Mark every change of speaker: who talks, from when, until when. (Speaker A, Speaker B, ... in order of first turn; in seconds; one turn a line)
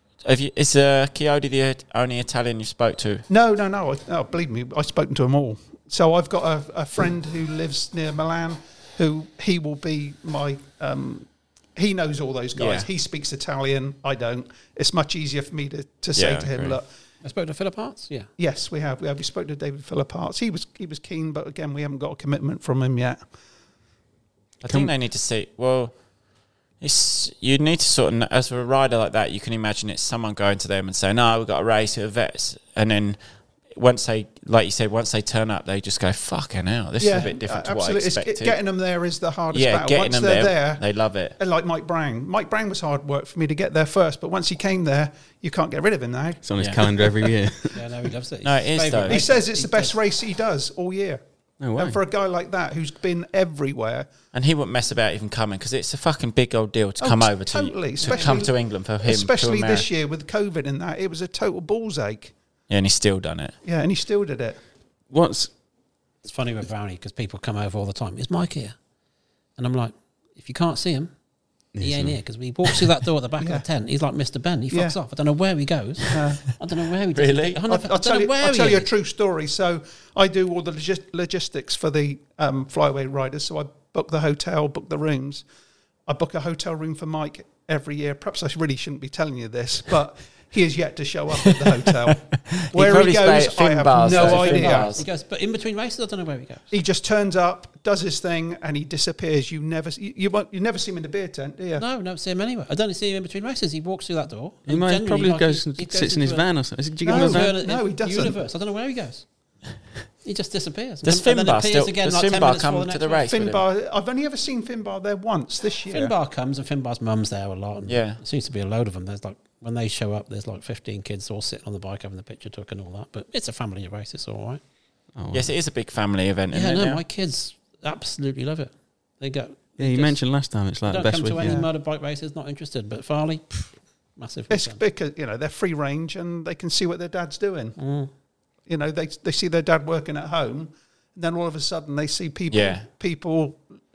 Speaker A: 0.2-3.2
Speaker B: 3.3-16.9
Speaker A: 12.5-12.9
Speaker A: 16.1-16.8
Speaker C: 17.2-18.3
Speaker B: 18.4-23.2
Speaker A: 24.6-25.9
Speaker D: 24.6-24.9
Speaker A: 26.8-33.2
Speaker A: 33.7-38.6
Speaker B: 37.0-40.8
Speaker A: 39.5-41.4
Speaker B: 41.4-47.3
Speaker D: 46.4-47.8
Speaker A: 46.6-46.8
Speaker C: 47.7-50.0
Speaker A: 48.4-49.2
Speaker B: 49.1-51.2
Speaker D: 51.6-52.0
Speaker B: 51.8-54.1
Speaker A: 54.3-59.9
Speaker B: 57.0-62.3
Speaker C: 58.0-58.5
Speaker A: 62.7-63.5
Speaker B: 63.6-64.6
Speaker D: 65.1-65.5
Speaker C: 66.2-68.8
Speaker C: 69.6-71.1
Speaker D: 71.7-72.2
Speaker C: 71.8-78.9
Speaker B: 73.4-73.6
Speaker B: 74.7-75.0
Speaker B: 76.1-76.4
Speaker A: 77.1-77.6
Speaker B: 77.7-85.5
Speaker B: 86.1-94.9
Speaker A: 92.5-95.0
Speaker C: 94.0-96.7
Speaker B: 96.7-101.8
Speaker C: 101.8-109.2
Speaker D: 104.7-107.5
Speaker B: 107.0-108.4
Speaker C: 110.2-113.3
Speaker A: 111.0-113.6
Speaker B: 113.3-116.1
Speaker C: 115.9-124.6
Speaker A: 117.9-118.2
Speaker D: 125.1-125.5
Speaker A: 125.3-127.0
Speaker C: 126.5-130.2
Speaker D: 129.8-131.6
Speaker C: 130.8-134.8
Speaker B: 131.4-131.7
Speaker B: 134.5-137.8
Speaker C: 137.8-138.1
Speaker B: 138.7-143.6
Speaker A: 142.5-142.8